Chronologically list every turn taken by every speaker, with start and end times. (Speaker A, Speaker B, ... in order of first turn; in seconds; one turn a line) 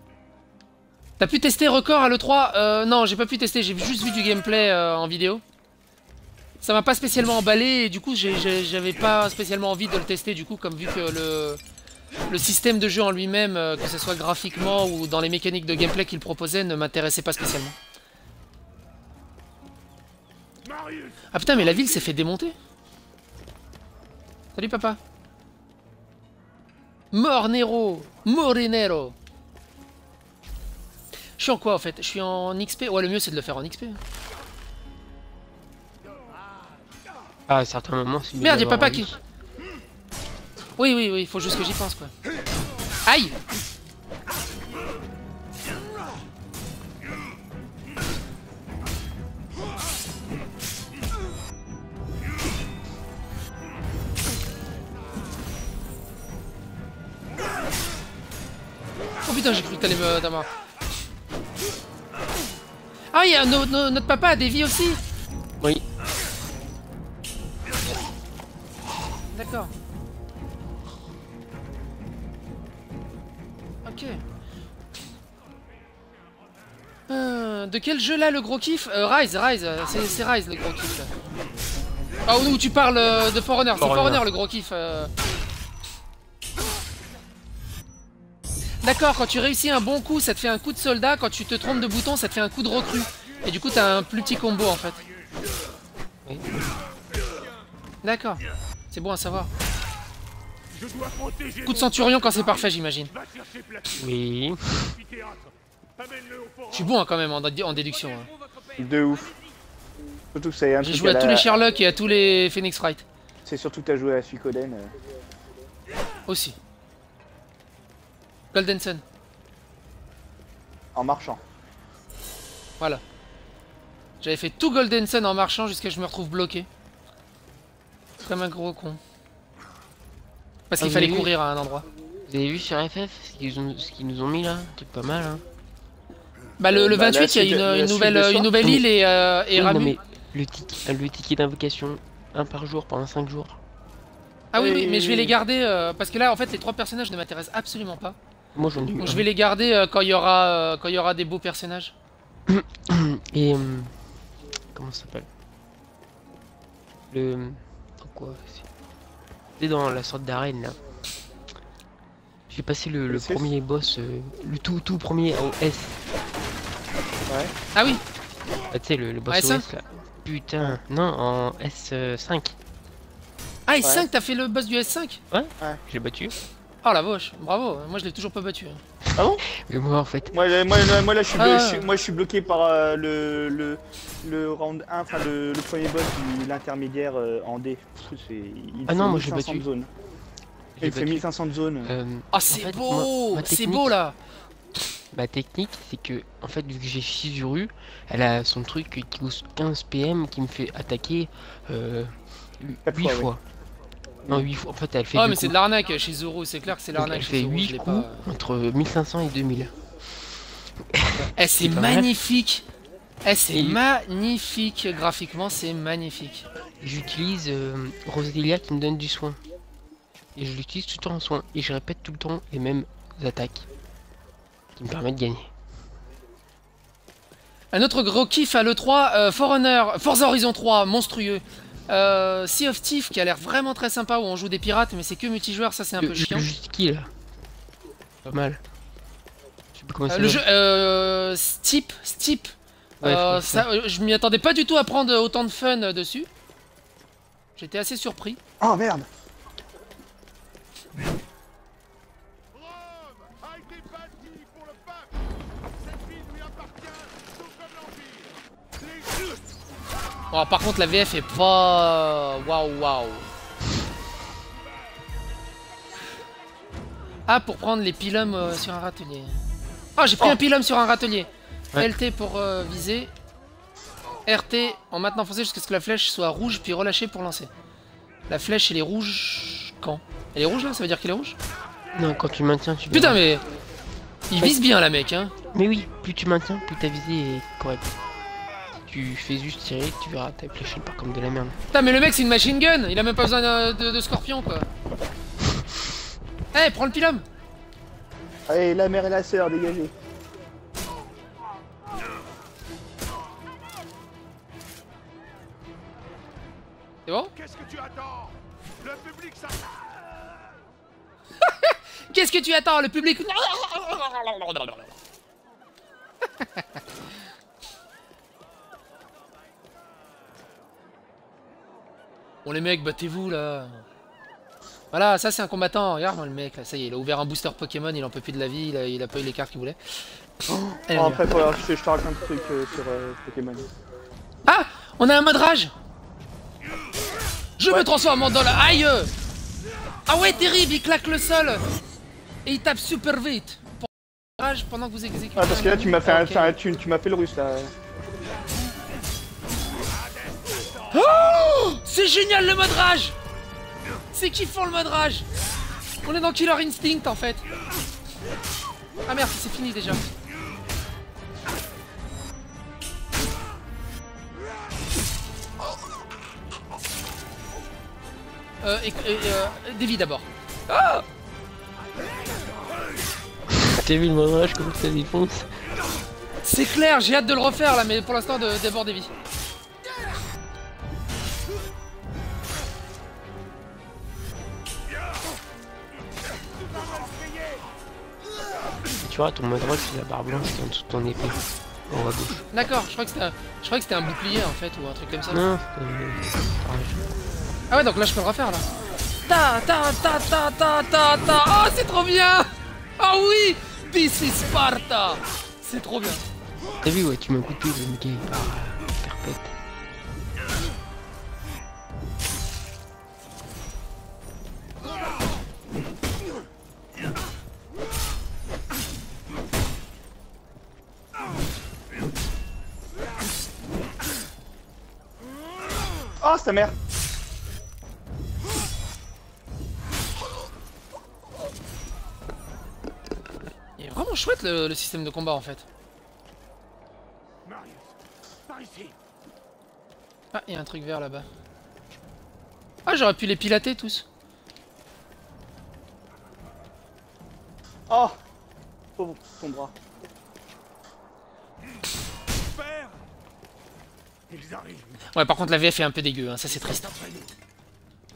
Speaker A: 1.2-5.4
Speaker A: 6.6-11.6
Speaker A: 12.3-17.7
Speaker B: 20.6-21.9
Speaker A: 21.3-22.5
Speaker A: 24.6-25.0
Speaker A: 27.1-29.1
Speaker A: 31.4-34.0
Speaker C: 37.5-39.1
Speaker A: 38.4-39.1
Speaker A: 40.8-42.1
Speaker A: 43.0-43.3
Speaker A: 59.2-60.5
Speaker A: 63.1-65.0
Speaker A: 69.3-69.7
Speaker A: 73.8-74.2
Speaker A: 77.1-81.1
Speaker A: 82.2-85.1
Speaker C: 83.8-84.2
Speaker A: 88.8-95.0
Speaker A: 98.0-99.5
Speaker B: 100.7-104.1
Speaker A: 101.7-103.1
Speaker C: 104.0-104.9
Speaker B: 104.9-106.9
Speaker A: 106.7-108.3
Speaker D: 108.8-109.3
Speaker D: 110.3-111.6
Speaker A: 110.8-113.0
Speaker D: 113.4-114.9
Speaker A: 116.3-116.6
Speaker A: 118.5-119.0
Speaker D: 120.9-121.4
Speaker A: 124.2-126.7
Speaker A: 128.2-129.0
Speaker A: 130.7-131.8
Speaker C: 130.8-131.3
Speaker C: 132.3-135.4
Speaker A: 136.6-139.9
Speaker D: 136.7-138.5
Speaker C: 139.5-143.6
Speaker A: 144.5-148.2
Speaker D: 144.5-145.3
Speaker C: 148.5-149.2
Speaker A: 149.0-151.9
Speaker C: 152.5-153.9
Speaker C: 154.7-155.3
Speaker C: 157.1-158.7
Speaker C: 159.6-160.8
Speaker C: 162.5-166.0
Speaker D: 163.1-163.5
Speaker D: 167.3-167.5
Speaker A: 167.7-168.0
Speaker C: 168.7-172.6
Speaker A: 169.3-169.6
Speaker A: 173.7-175.2
Speaker C: 175.3-176.3
Speaker A: 176.8-178.8
Speaker C: 179.1-180.3
Speaker D: 179.2-179.4
Speaker D: 180.3-189.9
Speaker A: 181.4-181.9
Speaker C: 188.9-189.7
Speaker C: 190.8-191.2
Speaker D: 190.8-191.9
Speaker C: 191.8-193.9
Speaker A: 192.3-194.1
Speaker C: 195.1-202.1
Speaker D: 202.6-203.3
Speaker C: 202.9-203.4
Speaker D: 204.2-204.5
Speaker C: 204.3-205.6
Speaker A: 205.1-208.2
Speaker C: 206.9-209.8
Speaker C: 210.9-212.1
Speaker A: 211.2-212.7
Speaker A: 213.2-216.4
Speaker C: 213.5-213.8
Speaker C: 216.8-219.4
Speaker C: 220.3-223.7
Speaker C: 224.8-225.5
Speaker A: 227.7-236.5
Speaker C: 236.0-237.1
Speaker C: 238.2-238.6
Speaker C: 239.7-240.4
Speaker A: 240.1-246.3
Speaker C: 243.0-243.7
Speaker A: 247.6-248.4
Speaker D: 248.6-249.1
Speaker B: 253.2-255.0
Speaker B: 255.9-258.3
Speaker A: 260.3-263.3
Speaker A: 267.3-269.4
Speaker A: 270.0-273.1
Speaker A: 274.2-277.5
Speaker A: 278.3-281.4
Speaker C: 281.9-283.2
Speaker A: 282.9-283.4
Speaker A: 284.3-285.3
Speaker C: 285.5-287.9
Speaker C: 288.9-291.6
Speaker A: 291.7-294.7
Speaker A: 296.5-297.2
Speaker D: 298.5-299.9
Speaker A: 307.1-307.3
Speaker B: 307.3-310.0
Speaker A: 311.4-314.9
Speaker A: 322.4-323.8
Speaker A: 324.9-330.0
Speaker D: 330.4-333.7
Speaker A: 330.9-331.2
Speaker A: 334.4-335.7
Speaker A: 337.6-339.1
Speaker A: 340.1-341.6
Speaker A: 342.4-346.6
Speaker D: 345.4-347.7
Speaker B: 350.2-350.9
Speaker A: 350.9-353.1
Speaker A: 354.1-355.3
Speaker A: 356.0-357.4
Speaker A: 359.1-360.0
Speaker A: 368.6-371.0
Speaker C: 373.5-375.5
Speaker A: 376.4-379.1
Speaker B: 386.8-387.2
Speaker C: 389.0-392.4
Speaker A: 392.5-395.4
Speaker C: 395.3-397.2
Speaker A: 397.7-398.7
Speaker A: 399.3-406.2
Speaker C: 406.8-409.5
Speaker D: 426.2-426.7
Speaker A: 433.8-435.6
Speaker B: 437.4-437.9
Speaker B: 438.5-438.9
Speaker A: 440.3-441.2
Speaker A: 442.9-444.1
Speaker D: 447.9-448.2
Speaker D: 449.0-449.7
Speaker B: 452.4-453.0
Speaker B: 454.3-455.0
Speaker A: 455.1-456.9
Speaker B: 456.9-457.3